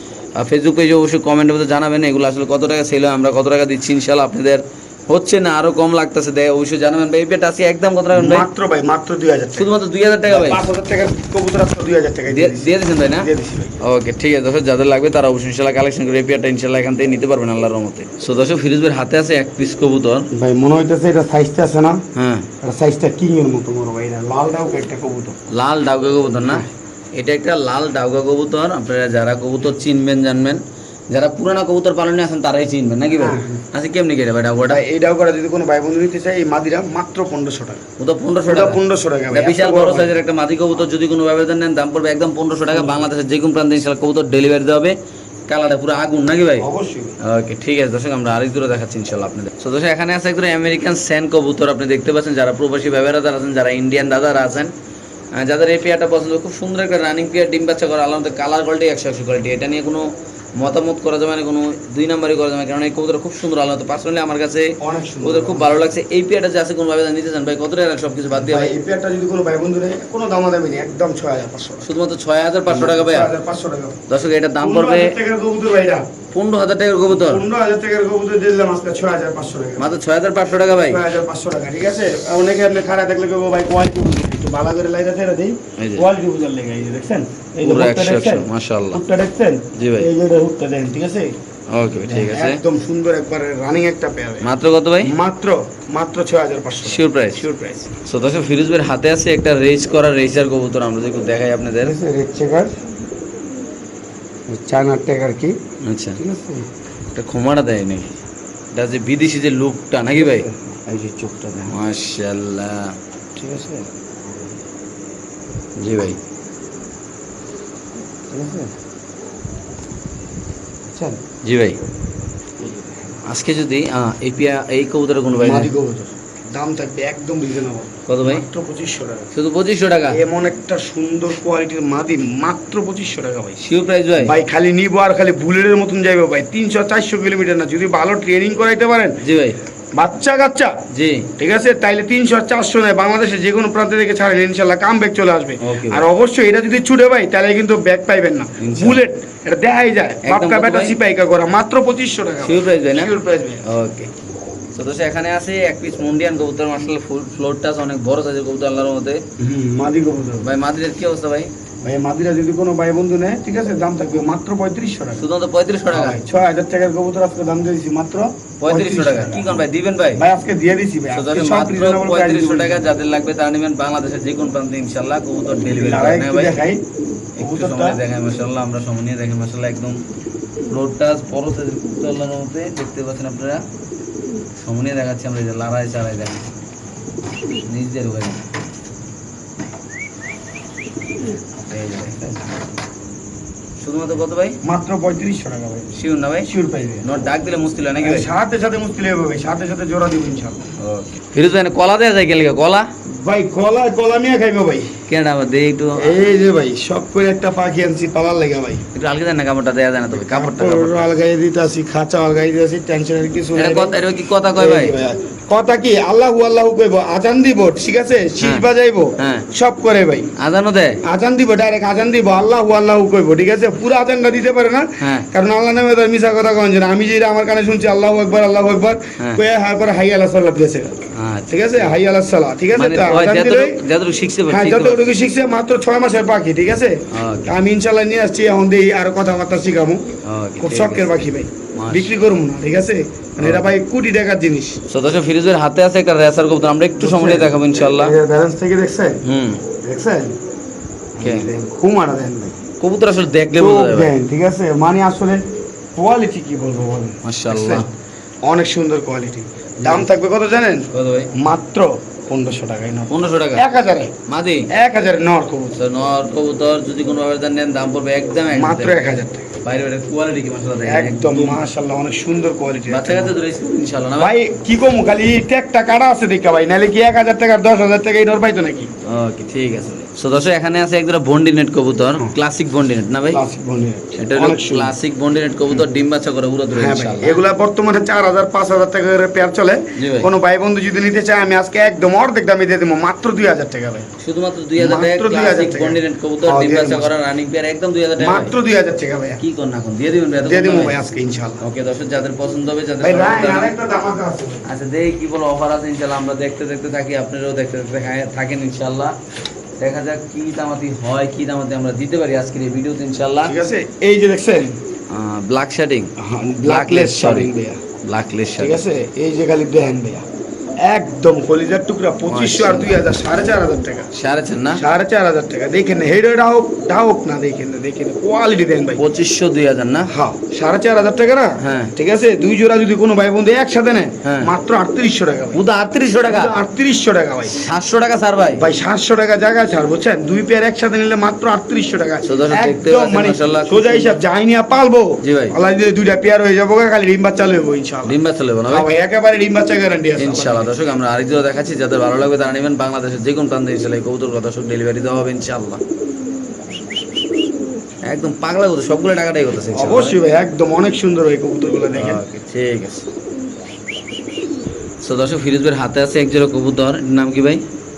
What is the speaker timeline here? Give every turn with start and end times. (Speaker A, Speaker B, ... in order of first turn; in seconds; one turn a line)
Speaker A: 0.3-8.5
Speaker B: 8.1-9.7
Speaker A: 9.5-10.6
Speaker B: 10.3-13.8
Speaker A: 12.3-13.3
Speaker A: 13.8-20.3
Speaker B: 20.3-22.0
Speaker A: 22.1-22.5
Speaker B: 22.6-25.4
Speaker A: 25.5-34.8
Speaker B: 33.2-33.6
Speaker B: 34.6-37.8
Speaker A: 38.0-45.0
Speaker B: 38.5-40.1
Speaker B: 42.7-43.0
Speaker A: 45.5-46.6
Speaker B: 46.6-47.2
Speaker A: 47.2-54.7
Speaker A: 55.3-68.8
Speaker B: 64.8-65.8
Speaker B: 68.3-71.9
Speaker A: 71.8-73.3
Speaker B: 72.7-74.0
Speaker A: 74.1-75.2
Speaker B: 74.6-76.1
Speaker A: 76.3-77.4
Speaker B: 77.1-79.9
Speaker A: 79.8-81.0
Speaker B: 80.9-91.4
Speaker A: 85.8-86.1
Speaker A: 87.6-89.0
Speaker A: 89.8-90.1
Speaker A: 91.7-92.6
Speaker B: 92.0-94.5
Speaker A: 94.4-95.1
Speaker B: 95.0-98.0
Speaker A: 96.8-97.4
Speaker A: 98.0-101.9
Speaker B: 101.8-102.8
Speaker B: 104.5-105.5
Speaker A: 105.8-106.2
Speaker B: 106.2-106.7
Speaker A: 107.1-108.2
Speaker A: 108.7-110.5
Speaker B: 110.0-111.7
Speaker A: 111.7-112.9
Speaker B: 113.3-114.6
Speaker A: 115.8-116.2
Speaker B: 118.3-118.7
Speaker B: 120.8-121.2
Speaker A: 121.4-121.8
Speaker B: 122.6-123.2
Speaker A: 123.2-125.7
Speaker B: 125.4-129.3
Speaker A: 128.1-128.4
Speaker A: 129.3-130.2
Speaker B: 130.1-133.6
Speaker A: 133.6-134.4
Speaker B: 134.2-139.2
Speaker A: 139.2-139.6
Speaker B: 139.9-140.8
Speaker A: 140.9-141.3
Speaker B: 141.4-153.7
Speaker A: 145.6-146.0
Speaker A: 148.6-149.0
Speaker A: 150.2-150.9
Speaker A: 152.4-154.1
Speaker A: 154.7-159.2
Speaker B: 159.4-160.5
Speaker A: 160.4-161.5
Speaker B: 161.8-165.2
Speaker A: 165.2-166.2
Speaker B: 165.9-169.6
Speaker A: 168.6-170.2
Speaker B: 170.1-172.9
Speaker A: 171.1-176.6
Speaker B: 175.6-176.8
Speaker A: 177.4-180.0
Speaker B: 177.4-178.0
Speaker A: 180.7-183.6
Speaker A: 184.6-186.4
Speaker A: 187.6-188.4
Speaker A: 191.7-192.2
Speaker B: 192.0-192.4
Speaker A: 193.8-194.6
Speaker B: 194.6-197.1
Speaker A: 195.9-196.5
Speaker A: 197.0-198.3
Speaker B: 198.0-200.7
Speaker A: 200.8-202.9
Speaker B: 203.1-205.0
Speaker A: 205.1-206.2
Speaker B: 206.0-208.8
Speaker A: 208.9-211.1
Speaker B: 210.1-213.9
Speaker A: 213.6-214.9
Speaker B: 214.6-220.3
Speaker A: 218.4-218.7
Speaker A: 219.2-219.5
Speaker A: 220.4-221.0
Speaker B: 221.0-230.9
Speaker A: 225.0-225.3
Speaker A: 231.1-231.9
Speaker B: 231.5-233.8
Speaker A: 232.8-235.1
Speaker B: 234.5-244.8
Speaker A: 237.1-237.5
Speaker A: 240.2-241.2
Speaker A: 241.8-242.1
Speaker A: 243.4-243.7
Speaker A: 244.9-248.2
Speaker B: 247.0-249.2
Speaker A: 249.2-249.6
Speaker B: 249.8-250.4
Speaker B: 251.1-252.6
Speaker A: 251.2-251.5
Speaker A: 252.8-254.1
Speaker B: 253.6-257.8
Speaker A: 257.2-257.9
Speaker B: 258.4-264.1
Speaker A: 259.8-260.1
Speaker A: 260.9-261.3
Speaker A: 263.1-263.6
Speaker A: 264.3-264.7
Speaker B: 264.7-265.8
Speaker A: 265.8-269.0
Speaker B: 268.5-269.5
Speaker A: 269.6-271.6
Speaker B: 270.8-273.4
Speaker A: 272.9-274.3
Speaker B: 274.2-278.9
Speaker A: 279.0-283.4
Speaker B: 283.3-284.9
Speaker A: 284.1-287.4
Speaker B: 286.7-294.1
Speaker A: 290.0-290.3
Speaker A: 294.2-298.5
Speaker B: 294.8-297.1
Speaker B: 298.2-299.4
Speaker A: 299.4-301.0
Speaker B: 300.4-301.6
Speaker A: 301.6-303.7
Speaker B: 303.0-304.7
Speaker A: 304.6-309.1
Speaker A: 309.8-313.5
Speaker B: 313.4-314.8
Speaker A: 315.1-316.1
Speaker B: 316.2-317.8
Speaker A: 316.6-317.5
Speaker A: 318.0-318.8
Speaker B: 318.6-320.2
Speaker B: 320.8-324.1
Speaker A: 322.3-323.0
Speaker A: 324.1-324.8
Speaker B: 324.8-329.0
Speaker A: 329.0-330.1
Speaker B: 330.1-335.6
Speaker A: 331.6-331.9
Speaker A: 334.2-334.5
Speaker A: 335.5-336.5
Speaker B: 336.3-337.7
Speaker A: 337.5-338.6
Speaker B: 338.6-348.2
Speaker A: 342.2-344.2
Speaker A: 345.2-345.5
Speaker A: 348.0-348.9
Speaker B: 348.7-350.7
Speaker A: 350.2-355.8
Speaker A: 358.0-360.2
Speaker B: 359.7-362.2
Speaker A: 361.9-363.1
Speaker A: 365.0-367.6